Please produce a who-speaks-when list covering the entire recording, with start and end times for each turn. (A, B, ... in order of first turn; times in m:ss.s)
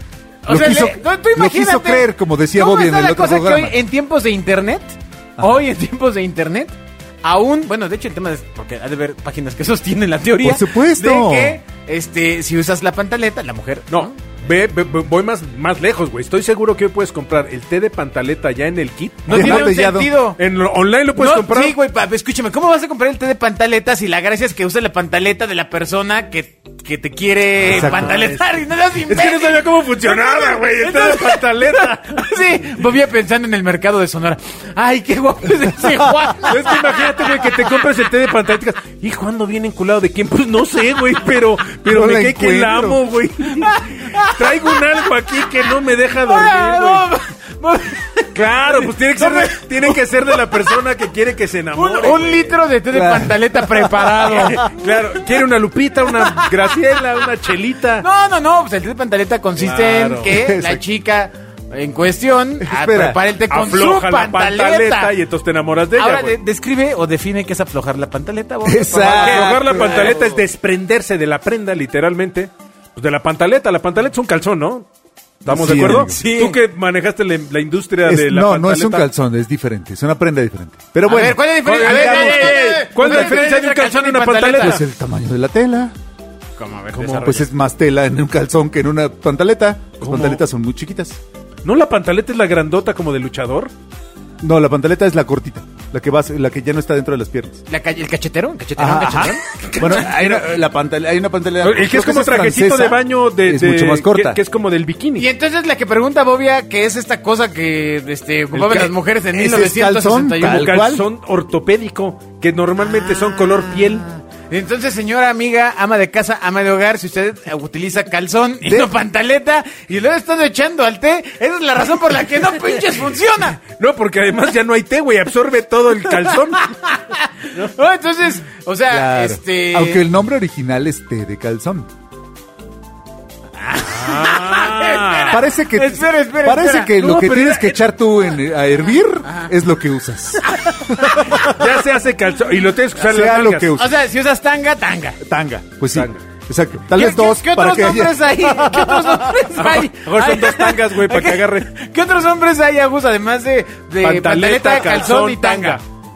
0:00.4-0:14.1 A
0:00.5-0:03.8 B
0:10.4-0:11.6 B
0:13.9-0:19.9 C
0:19.3-0:20.4 A
0:19.3-0:20.1 B
0:20.4-0:21.8 C
0:21.2-0:37.7 A
0:27.6-0:28.4 C
0:27.6-0:28.2 B
0:29.0-0:32.3 C
0:36.4-0:47.1 C
0:41.9-0:43.0 B
0:43.6-0:45.0 A
0:46.3-0:50.0 A
0:48.4-0:52.6 C
0:51.8-0:55.2 A
0:52.9-0:54.6 B
0:54.2-0:58.0 C
0:56.1-0:56.6 A
0:58.0-1:05.1 A
0:59.6-1:00.4 C
1:00.3-1:00.8 B
1:02.6-1:03.2 B
1:03.5-1:06.4 C
1:06.0-1:10.3 A
1:08.6-1:10.4 B
1:09.0-1:14.9 C
1:15.4-1:19.1 C
1:15.4-1:16.2 B
1:15.6-1:16.6 A
1:18.0-1:23.5 B
1:21.0-1:24.8 A
1:21.6-1:24.8 C
1:24.6-1:25.9 B
1:26.6-1:27.5 A
1:26.9-1:27.3 C
1:27.1-1:31.2 B
1:30.0-1:30.4 C
1:31.6-1:33.7 C
1:34.4-1:37.6 B
1:37.7-1:40.4 A
1:38.8-1:44.4 B
1:39.8-1:40.1 C
1:41.6-1:45.3 C
1:45.2-1:50.8 A
1:48.5-1:48.9 C
1:49.3-1:51.0 B
1:50.4-1:54.1 C
1:53.0-2:03.6 A
1:58.6-1:58.9 B
2:03.6-2:06.7 C
2:06.6-2:10.0 A
2:08.9-2:11.9 B
2:13.6-2:17.0 A
2:13.8-2:15.4 C
2:15.3-2:21.6 B
2:17.0-2:17.8 C
2:20.5-2:21.4 A
2:21.3-2:23.8 C
2:23.0-2:23.9 B
2:23.8-2:25.2 A
2:25.2-2:29.3 B
2:25.9-2:26.2 C
2:26.9-2:35.8 A
2:29.5-2:31.7 C
2:34.0-2:35.8 C